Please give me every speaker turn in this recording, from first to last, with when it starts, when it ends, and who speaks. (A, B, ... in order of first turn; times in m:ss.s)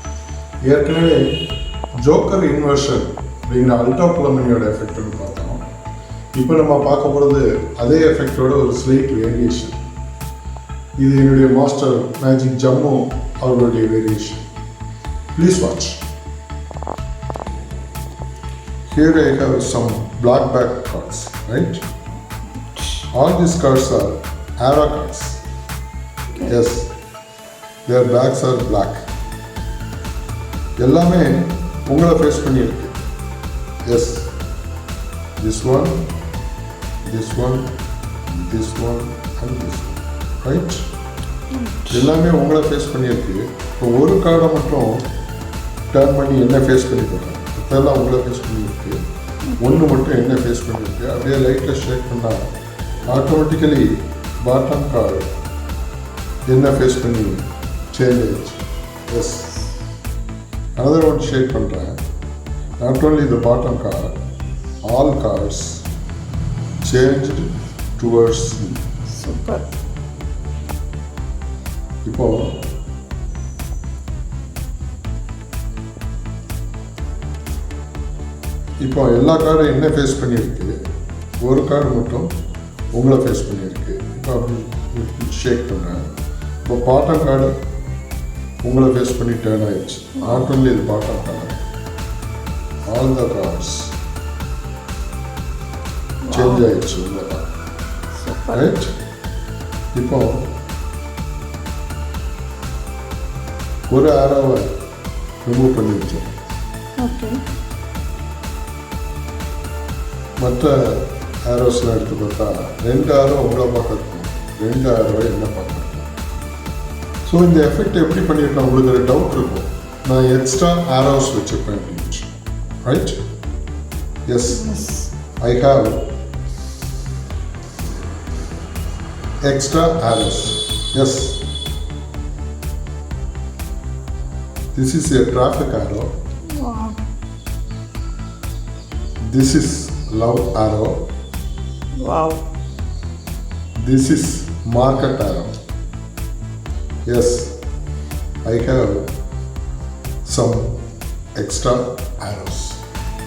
0:00.6-0:05.6 A
0:06.4-0:09.8 A
0:11.0-0:14.5 A
0:15.3-0:16.0 A
0:18.9-0:21.8 A
0:22.7-0:23.1 B
0:23.1-0:25.4 A
0:26.4-0:26.9 A
0:27.8-0:29.0 A
0:30.8-0:33.0 A
0:33.9-0:34.3 A
0:35.4-0:36.1 A
0:37.0-0:37.7 A
0:38.3-0:40.8 A
0:41.5-0:42.1 B
0:41.9-0:45.1 A
0:45.9-0:49.0 A
0:49.6-0:52.5 A
0:53.1-0:55.3 A
0:56.5-0:59.6 A
1:00.8-1:02.0 A
1:02.8-1:04.2 A
1:04.8-1:05.9 A
1:06.8-1:08.9 A
1:09.1-1:09.7 B
1:12.0-1:12.6 A
1:18.8-1:20.7 A
1:21.4-1:22.3 A
1:22.9-1:26.1 A
1:26.7-1:27.5 A
1:28.6-1:31.6 A
1:32.9-1:34.0 A
1:36.2-1:36.7 B
1:36.3-1:37.5 A
1:38.2-1:38.7 B
1:38.5-1:38.9 A
1:40.0-1:40.5 A
1:43.9-1:44.7 A
1:45.4-1:46.3 A
1:47.0-1:47.4 B
1:50.4-1:56.1 A
1:57.2-2:02.3 A
2:02.8-2:03.2 A
2:04.3-2:06.1 A
2:04.5-2:05.1 B
2:09.4-2:11.5 A
2:14.7-2:16.1 A
2:16.5-2:17.0 B
2:19.2-2:21.1 A
2:22.0-2:22.4 B
2:23.8-2:25.6 A
2:27.1-2:27.6 A
2:28.4-2:29.1 A
2:30.2-2:30.8 A
2:31.4-2:32.8 A